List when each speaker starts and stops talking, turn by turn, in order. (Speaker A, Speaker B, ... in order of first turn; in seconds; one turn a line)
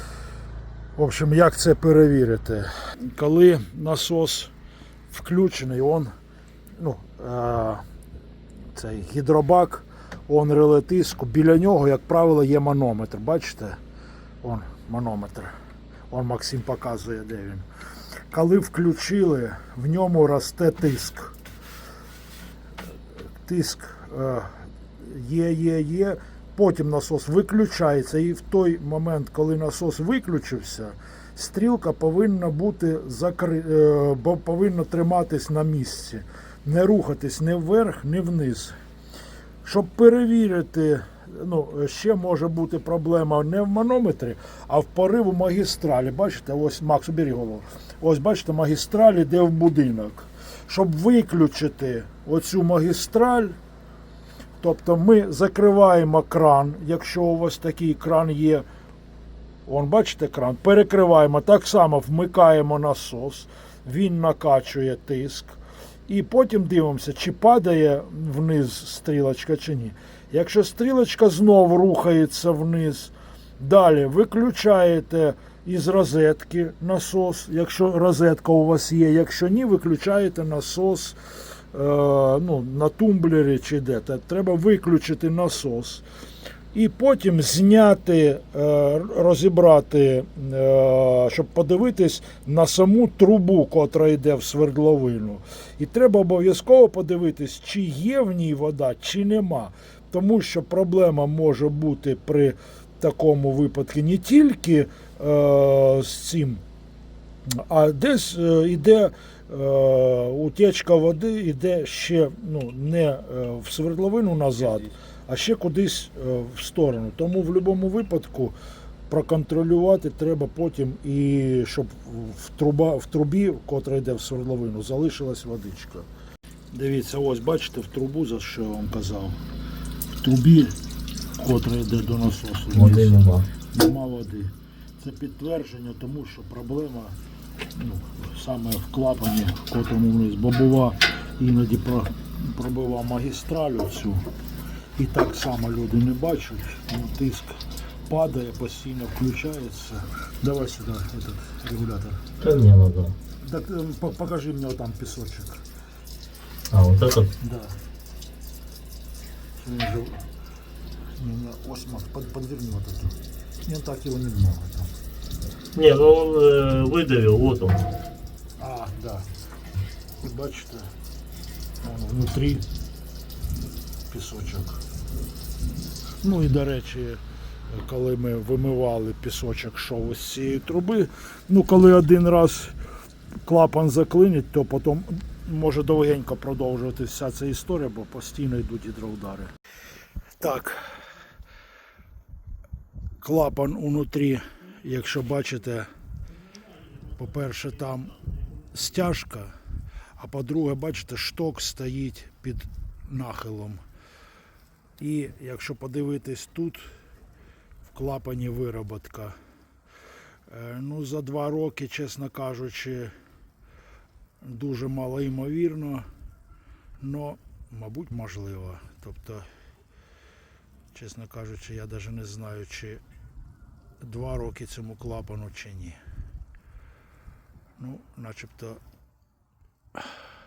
Speaker A: 0.9-4.5
Speaker A: 5.1-6.1
Speaker A: 6.8-7.8
Speaker A: 8.7-13.8
Speaker A: 14.4-15.5
Speaker A: 16.1-17.6
Speaker A: 18.3-21.3
Speaker A: 23.4-38.7
Speaker A: 39.6-53.5
Speaker A: 54.6-58.6
Speaker A: 59.6-86.0
Speaker A: 86.7-106.6
Speaker A: 107.5-118.5
Speaker A: 119.1-126.1
Speaker A: 126.7-129.4
Speaker A: 130.2-130.8
Speaker A: 131.3-137.2
Speaker B: 132.7-133.5
Speaker A: 137.7-144.2
Speaker A: 145.0-152.3
Speaker B: 152.4-153.2
Speaker A: 153.4-155.6
Speaker B: 156.7-157.3
Speaker A: 157.4-157.8
Speaker A: 159.6-160.2
Speaker A: 161.2-164.9
Speaker B: 165.7-167.9
Speaker A: 168.6-169.3
Speaker A: 170.2-170.9
Speaker A: 171.8-172.6
Speaker A: 174.1-174.8
Speaker A: 176.2-182.7
Speaker A: 183.4-189.5
Speaker A: 190.4-190.9
Speaker A: 193.2-195.9
Speaker A: 197.2-198.2
Speaker A: 198.7-199.5
Speaker A: 200.2-203.8
Speaker A: 205.0-206.9
Speaker A: 207.9-209.3
Speaker A: 210.5-213.1
Speaker A: 214.4-216.1
Speaker A: 217.0-219.5
Speaker A: 220.9-223.0
Speaker A: 224.0-226.0
Speaker A: 227.8-228.8